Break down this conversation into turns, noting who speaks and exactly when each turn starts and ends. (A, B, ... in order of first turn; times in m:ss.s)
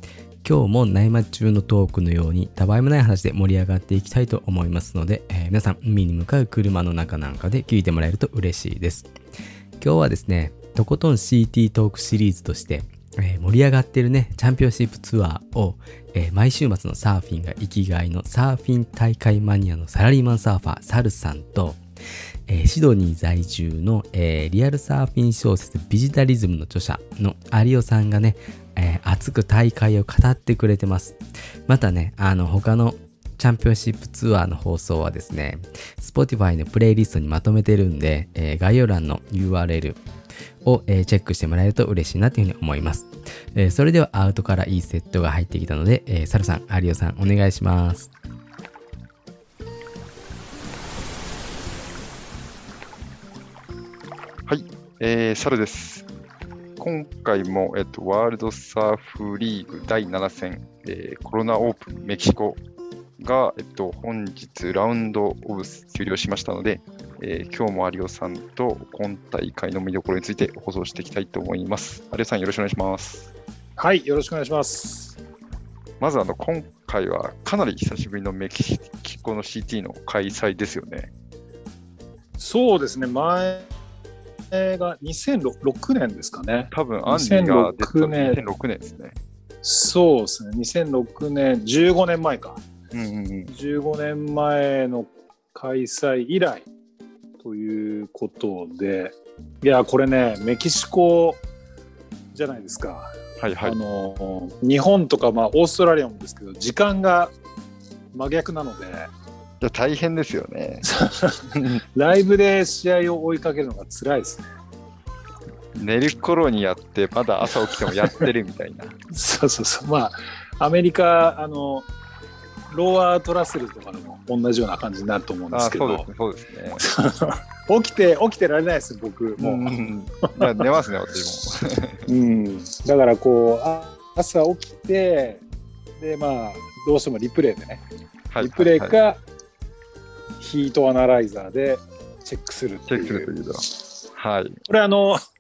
0:00.4-0:09.1 A
0:09.8-0:21.8 A
0:22.5-0:40.0 A
0:40.6-0:48.1 A
0:54.5-0:56.1 B
0:56.8-1:02.6 B
1:03.2-1:13.3 B
1:13.8-1:15.2 C
1:16.0-1:21.1 B
1:22.4-1:23.7 C
1:24.5-1:28.4 C
1:26.7-1:29.2 B
1:29.6-1:32.6 C
1:32.9-1:33.5 B
1:33.5-1:36.7 C
1:37.4-1:41.4 C
1:42.3-1:43.1 C
1:43.4-1:43.8 B
1:43.6-1:47.3 C
1:48.1-1:49.1 C
1:49.6-1:50.9 B
1:50.8-1:54.5 C
1:51.5-1:51.8 B
1:55.8-1:59.0 B
1:57.9-1:58.3 C
1:59.1-2:01.9 C
2:02.7-2:06.1 C
2:05.5-2:06.9 B
2:06.8-2:10.6 C
2:09.4-2:12.1 B
2:12.1-2:15.4 C
2:16.0-2:17.8 C
2:18.3-2:19.0 B
2:18.4-2:19.2 C
2:20.4-2:23.3 C
2:22.9-2:23.6 B
2:24.2-2:24.6 B
2:24.7-2:25.2 C